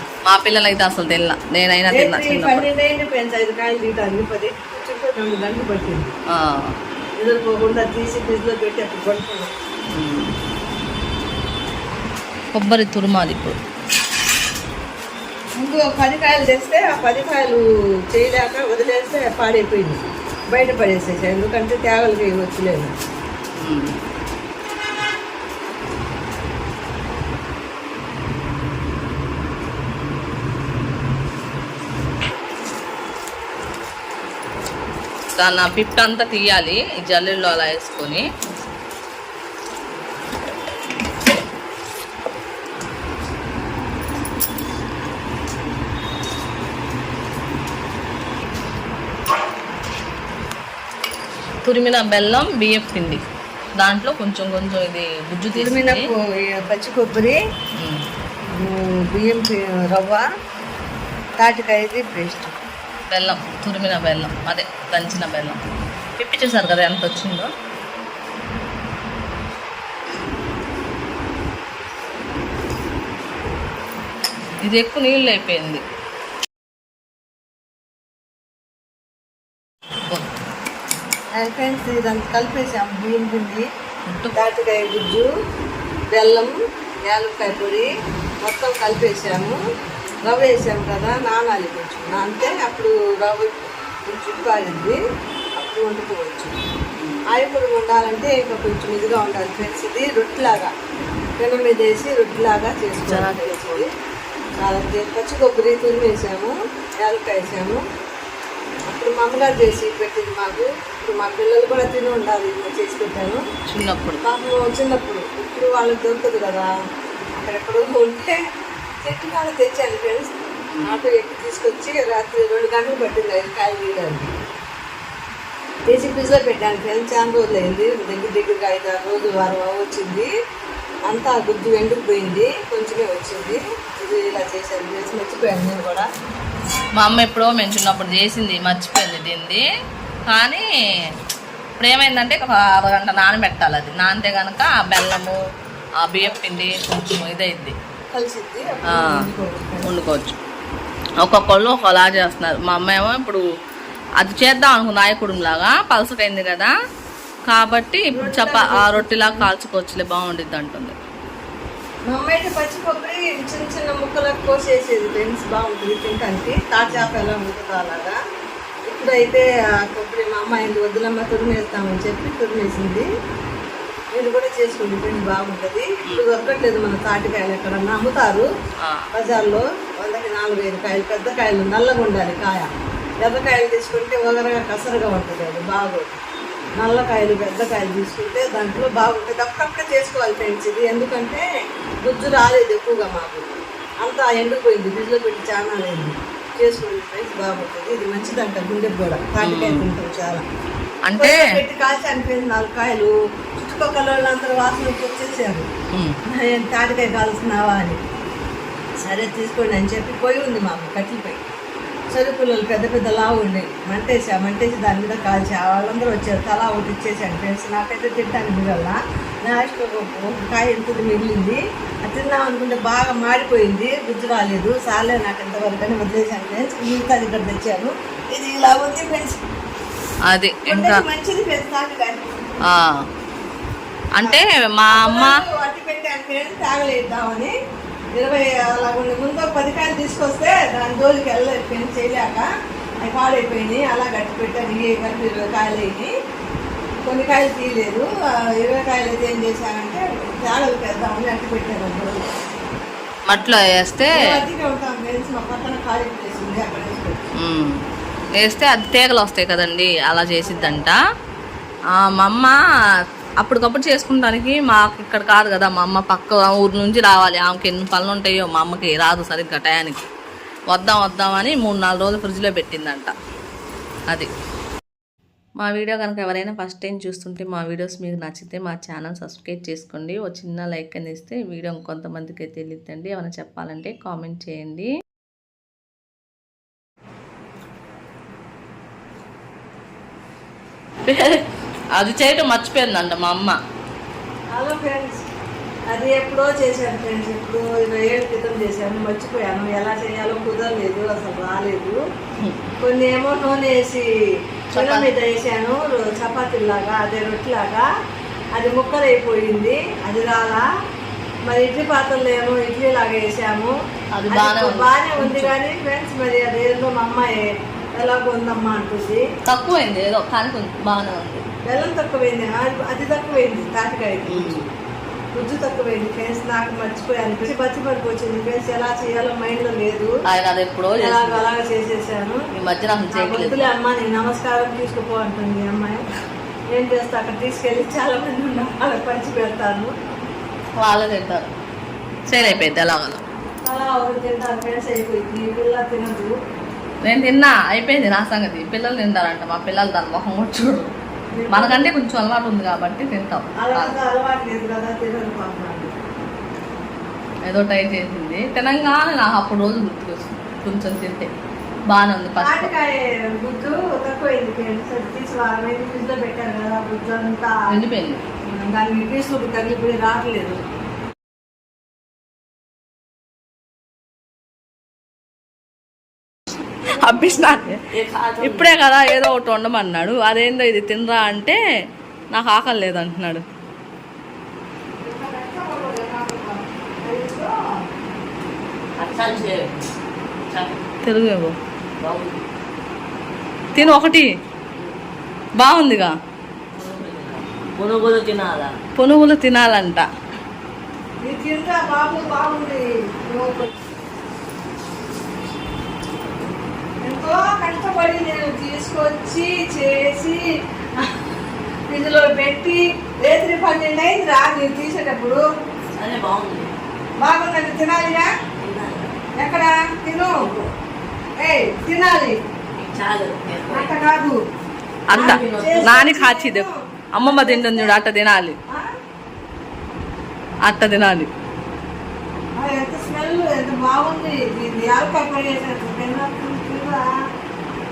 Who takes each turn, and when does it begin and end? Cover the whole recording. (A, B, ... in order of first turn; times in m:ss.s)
0:00.3-0:02.7 A
0:01.9-0:06.1 B
0:06.3-0:06.8 A
0:07.2-0:09.5 B
0:09.9-0:10.3 A
0:12.5-0:13.6 A
0:15.6-0:22.9 B
0:23.6-0:24.0 A
0:35.4-0:38.3 A
0:51.6-0:53.2 A
0:53.8-0:56.1 A
0:55.5-0:57.4 B
0:57.8-0:58.0 A
0:58.5-1:00.2 B
1:01.4-1:02.6 B
1:03.1-1:05.6 A
1:06.2-1:07.5 A
1:14.6-1:15.8 A
1:21.4-1:23.7 B
1:24.1-1:24.4 A
1:24.3-1:25.3 B
1:26.1-1:27.9 B
1:28.4-1:29.6 B
1:30.2-1:35.0 B
1:35.6-1:36.6 B
1:37.0-1:37.2 A
1:37.3-1:40.7 B
1:41.4-1:43.9 B
1:43.1-1:43.9 A
1:44.6-1:47.8 B
1:48.9-1:53.4 B
1:53.7-1:54.2 A
1:54.2-1:56.7 B
1:57.4-1:58.4 B
1:59.0-2:04.3 B
2:00.7-2:01.0 A
2:05.9-2:10.3 B
2:11.1-2:16.1 B
2:17.0-2:19.6 A
2:20.3-2:20.6 A
2:21.8-2:25.4 A
2:26.0-2:27.8 A
2:28.1-2:29.9 B
2:28.9-2:29.2 A
2:29.8-2:30.4 A
2:31.2-2:33.4 A
2:34.2-2:36.7 A
2:37.5-2:40.9 A
2:38.1-2:39.5 B
2:42.1-2:48.2 B
2:48.9-2:53.1 B
2:54.1-2:58.5 B
2:59.1-3:02.7 B
3:03.2-3:06.2 B
3:06.8-3:11.4 B
3:12.0-3:13.5 B
3:14.0-3:20.4 B
3:19.4-3:19.9 A
3:21.1-3:21.6 A
3:21.2-3:25.7 B
3:26.3-3:28.0 B
3:29.0-3:31.4 B
3:32.1-3:49.4 B
3:50.3-3:51.0 A
3:50.7-3:52.5 B
3:52.6-3:53.1 A
3:54.2-3:55.4 A
3:54.2-3:57.6 B
3:58.2-4:02.5 B
4:03.0-4:06.1 B
4:07.0-4:12.4 B
4:13.3-4:14.3 A
4:14.1-4:17.3 B
4:17.4-4:17.8 A
4:18.4-4:21.0 A
4:20.4-4:20.9 B
4:22.0-4:22.6 A
4:23.4-4:30.0 A
4:30.7-4:33.1 A
4:35.6-4:44.9 A
4:51.1-4:51.4 A
4:52.0-4:53.6 A
4:54.5-4:55.2 B
4:55.9-5:02.0 B
5:02.8-5:04.1 B
5:04.7-5:07.9 B
5:04.7-5:05.1 A
5:08.5-5:10.6 B
5:11.4-5:13.7 B
5:14.1-5:15.5 A
5:14.3-5:19.2 B
5:19.5-5:21.4 A
5:21.6-5:24.7 B
5:24.3-5:24.6 A
5:25.3-5:30.2 B
5:30.3-5:31.4 A
5:31.0-5:32.4 B
5:32.5-5:33.7 A
5:33.1-5:36.0 B
5:36.7-5:39.9 B
5:40.8-5:41.5 A
5:42.3-5:43.2 A
5:42.3-5:42.6 B
5:43.6-5:46.3 B
5:47.0-5:50.9 A
5:51.3-5:51.9 B
5:51.5-5:53.9 A
5:53.6-5:56.0 B
5:57.5-6:01.3 A
6:01.9-6:02.7 A
6:02.4-6:07.7 B
6:07.7-6:08.2 A
6:08.5-6:10.6 B
6:16.8-6:17.7 B
6:16.9-6:17.8 A
6:17.9-6:18.7 C
6:18.4-6:21.6 A
6:22.3-6:23.4 A
6:25.0-6:27.6 B
6:29.0-6:29.8 C
6:30.5-6:30.8 C
6:31.0-6:31.6 A
6:32.0-6:32.4 C
6:33.8-6:34.3 A
6:35.6-6:36.2 A
6:36.7-6:38.7 C
6:39.0-6:40.1 A
6:41.2-6:43.8 B
6:47.0-6:50.4 B
6:51.9-6:55.4 B
6:56.0-6:56.7 C
6:57.2-6:58.3 B
6:58.6-6:59.2 C
6:59.4-7:00.6 B
7:01.4-7:02.4 B
7:02.8-7:03.9 C
7:03.7-7:04.4 B
7:05.1-7:08.6 A
7:05.1-7:05.9 C
7:05.1-7:08.0 B
7:10.6-7:11.3 A
7:12.6-7:17.1 B